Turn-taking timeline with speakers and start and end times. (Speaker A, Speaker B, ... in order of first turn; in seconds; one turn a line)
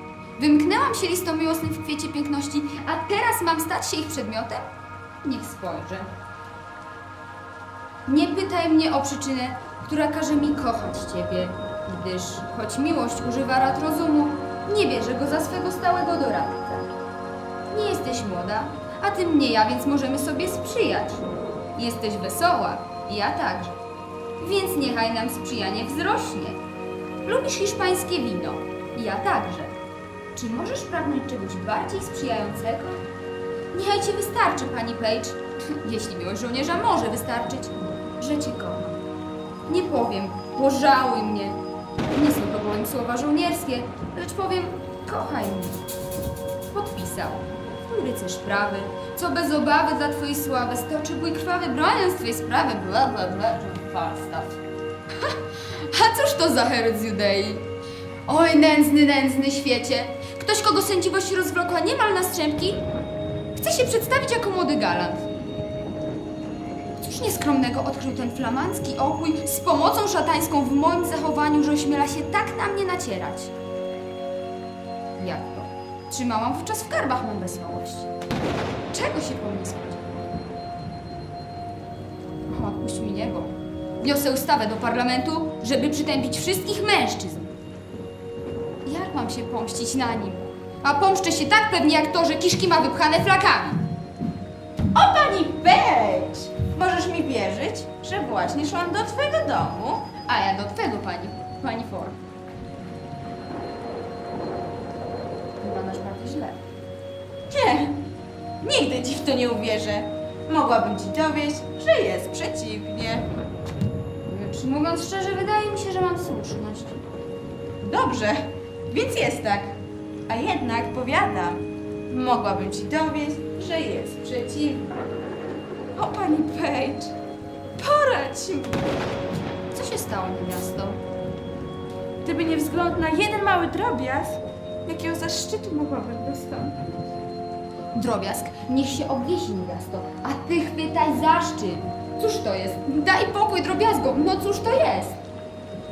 Speaker A: 0.4-4.6
Speaker A: 5.2-6.1
Speaker A: 8.1-16.9
Speaker A: 17.7-23.8
Speaker A: 24.4-26.6
Speaker A: 27.2-29.8
Speaker A: 30.3-33.0
Speaker A: 33.7-39.0
Speaker A: 39.7-45.8
Speaker A: 46.7-54.6
Speaker A: 55.2-57.6
Speaker A: 58.3-62.9
Speaker A: 63.5-65.3
Speaker A: 67.0-73.5
Speaker A: 75.2-78.1
Speaker A: 78.9-80.3
Speaker A: 82.5-87.5
Speaker A: 88.8-93.9
Speaker B: 94.9-100.1
Speaker A: 100.2-102.2
Speaker A: 105.6-106.6
Speaker B: 107.5-108.0
Speaker B: 108.6-113.3
Speaker A: 114.2-117.0
Speaker B: 117.8-124.9
Speaker B: 126.0-127.1
Speaker B: 127.8-128.8
Speaker A: 129.7-131.0
Speaker B: 132.2-137.0
Speaker A: 137.9-145.2